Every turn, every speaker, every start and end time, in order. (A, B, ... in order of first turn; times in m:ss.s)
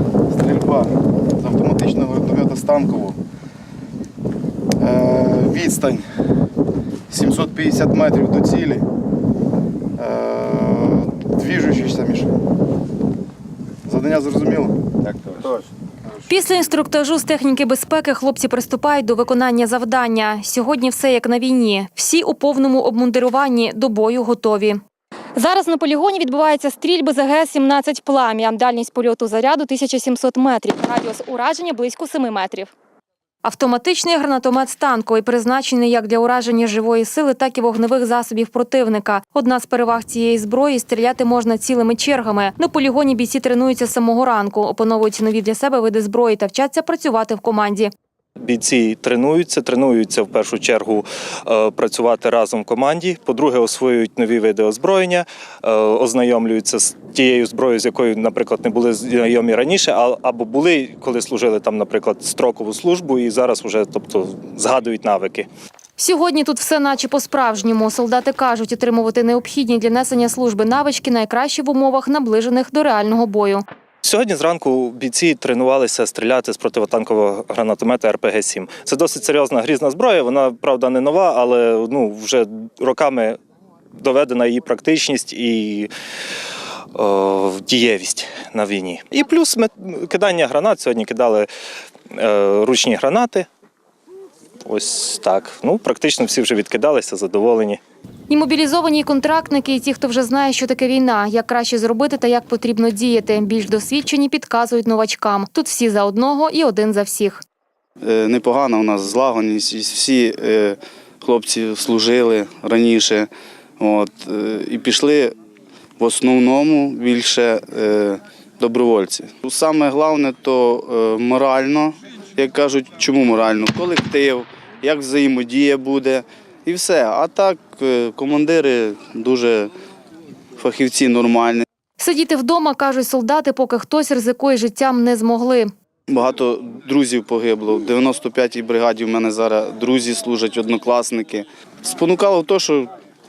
0:00.3-0:03.2 A
0:04.8-0:06.0 A
0:07.1-0:08.8 A
0:10.0-0:12.4 A
0:13.9-0:15.5 A
0:16.3-0:24.8 B
0:25.3-0:32.7 B
0:33.4-0:47.9 B
0:48.4-1:05.5 C
1:06.0-1:13.6 B
1:14.0-1:23.4 C
1:24.0-1:25.9 C
1:26.9-1:31.5 C
1:32.1-1:33.5 C
1:34.6-1:37.8 C
1:38.3-1:47.4 B
1:48.0-1:55.3 A
1:56.0-2:09.7 A
2:10.6-2:11.6 A
2:12.0-2:15.7 B
2:16.1-2:22.9 A